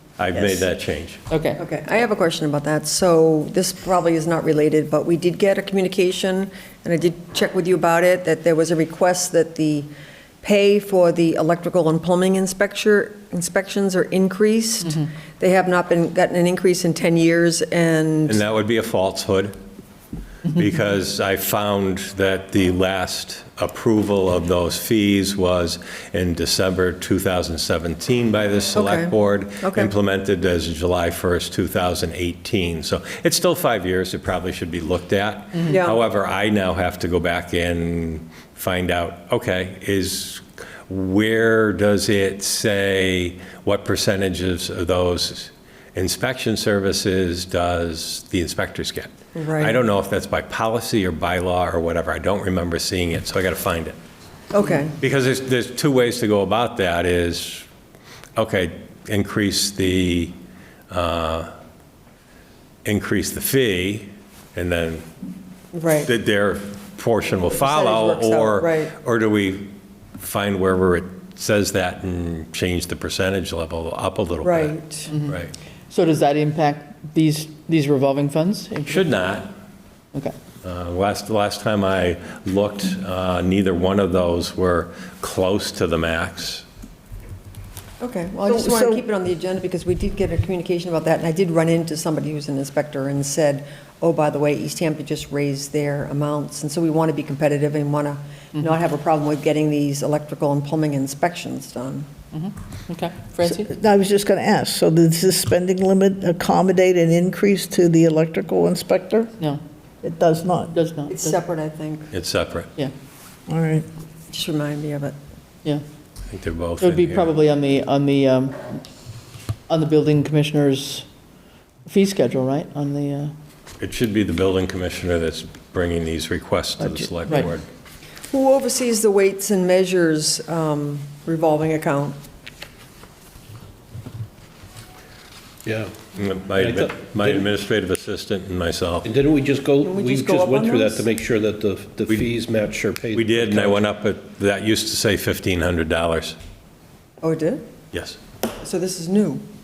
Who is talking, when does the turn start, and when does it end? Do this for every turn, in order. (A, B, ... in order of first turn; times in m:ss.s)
0:00.2-0:01.2 A
0:01.3-0:01.6 B
0:01.6-0:09.9 C
0:10.4-0:18.4 C
0:18.3-0:19.6 A
0:20.5-0:54.0 A
0:28.8-0:29.9 C
0:35.7-0:36.0 C
0:49.3-0:49.8 C
0:54.5-0:55.0 C
0:55.0-0:57.7 A
0:58.4-1:00.3 A
1:00.9-1:01.5 A
1:02.8-1:05.1 A
1:05.7-1:06.1 C
1:06.1-1:15.5 A
1:07.5-1:08.9 C
1:14.4-1:15.1 C
1:15.1-1:15.4 B
1:15.9-1:19.1 B
1:18.9-1:19.5 A
1:20.6-1:26.6 A
1:28.0-1:42.1 C
1:28.5-1:29.0 D
1:42.3-1:43.7 B
1:43.4-1:49.3 D
1:50.0-1:50.7 D
1:50.7-1:51.4 B
1:51.1-1:52.1 C
1:52.1-1:52.7 A
1:53.5-1:53.9 D
1:54.3-1:55.2 C
1:56.3-1:57.3 A
1:56.8-1:58.8 B
1:59.7-2:01.1 B
2:01.9-2:03.3 B
2:03.8-2:07.6 A
2:08.3-2:12.2 C
2:15.7-2:15.9 E
2:16.2-2:19.1 A
2:16.6-2:17.5 E
2:19.0-2:23.8 E
2:19.8-2:21.0 C
2:23.2-2:26.4 A
2:27.2-2:27.7 C
2:27.9-2:28.2 A
2:28.6-2:29.4 C